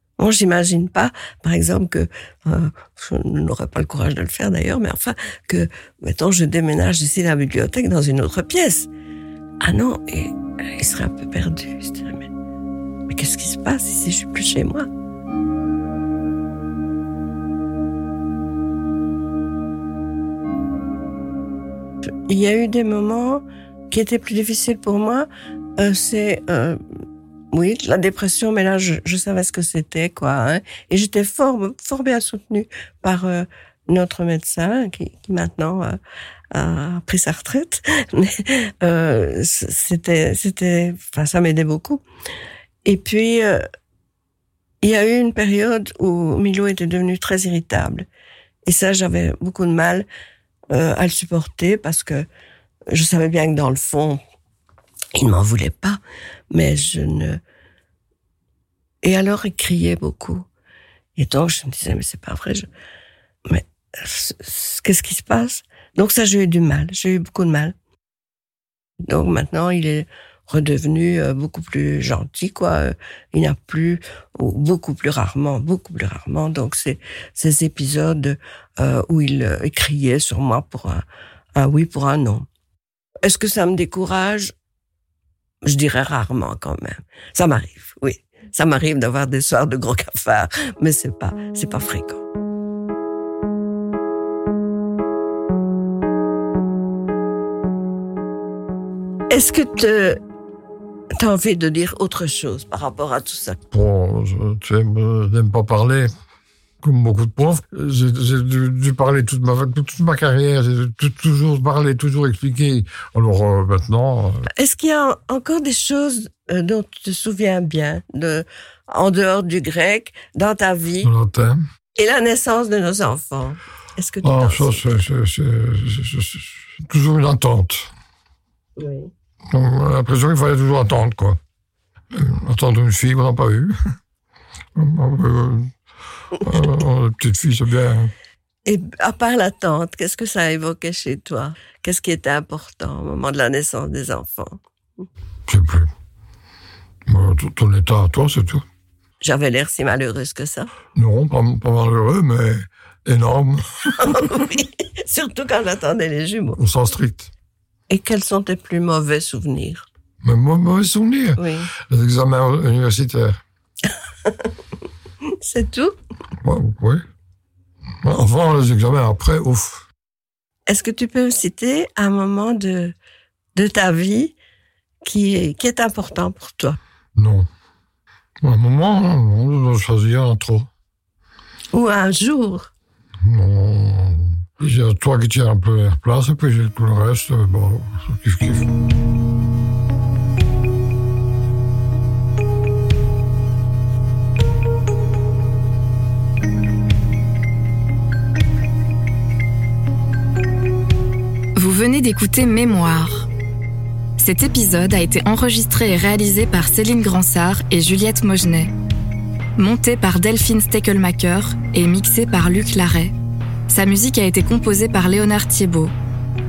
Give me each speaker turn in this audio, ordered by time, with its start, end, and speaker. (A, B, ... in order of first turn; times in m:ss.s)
0:00.2-0:08.9 A
0:09.6-0:12.3 A
0:13.1-0:14.9 A
0:22.3-0:25.3 A
0:25.8-0:26.8 A
0:27.5-0:36.0 A
0:36.5-0:42.0 A
0:42.8-0:43.6 A
0:44.8-0:48.1 A
0:48.7-0:50.1 A
0:50.7-0:52.3 A
0:52.9-0:54.2 A
0:55.2-0:56.0 A
0:56.5-0:57.4 A
0:59.0-1:00.5 A
1:01.2-1:02.7 A
1:03.5-1:07.7 A
1:09.1-1:21.0 A
1:21.6-1:22.5 A
1:23.2-1:24.5 A
1:25.6-1:32.2 A
1:39.3-1:40.2 A
1:41.2-1:43.6 A
1:43.7-1:46.1 B
1:46.8-1:54.5 B
1:54.6-2:01.1 A
2:01.0-2:01.6 B
2:02.0-2:05.0 A
2:04.2-2:07.9 B
2:08.8-2:09.1 A
2:09.5-2:11.4 B
2:12.1-2:13.8 B
2:14.8-2:15.8 B
2:16.4-2:18.1 B
2:18.6-2:24.6 A
2:25.5-2:25.9 B
2:27.1-2:28.7 B
2:29.2-2:30.7 A
2:31.0-2:34.2 B
2:33.9-2:36.6 A
2:36.6-2:37.3 B
2:37.9-2:39.9 A
2:40.2-2:43.4 B
2:41.4-2:41.7 A
2:44.2-2:44.5 A
2:45.4-2:46.0 A
2:46.4-2:47.0 B
2:48.0-2:49.9 B
2:50.7-2:53.0 A
2:53.6-2:54.4 A
2:55.0-2:56.8 A
2:57.2-2:57.5 B
2:58.4-3:00.7 B
3:01.7-3:02.7 A
3:03.2-3:08.7 B
3:21.6-3:23.3 C
3:24.2-3:28.7 C
3:29.6-3:33.1 C
3:33.7-3:35.9 C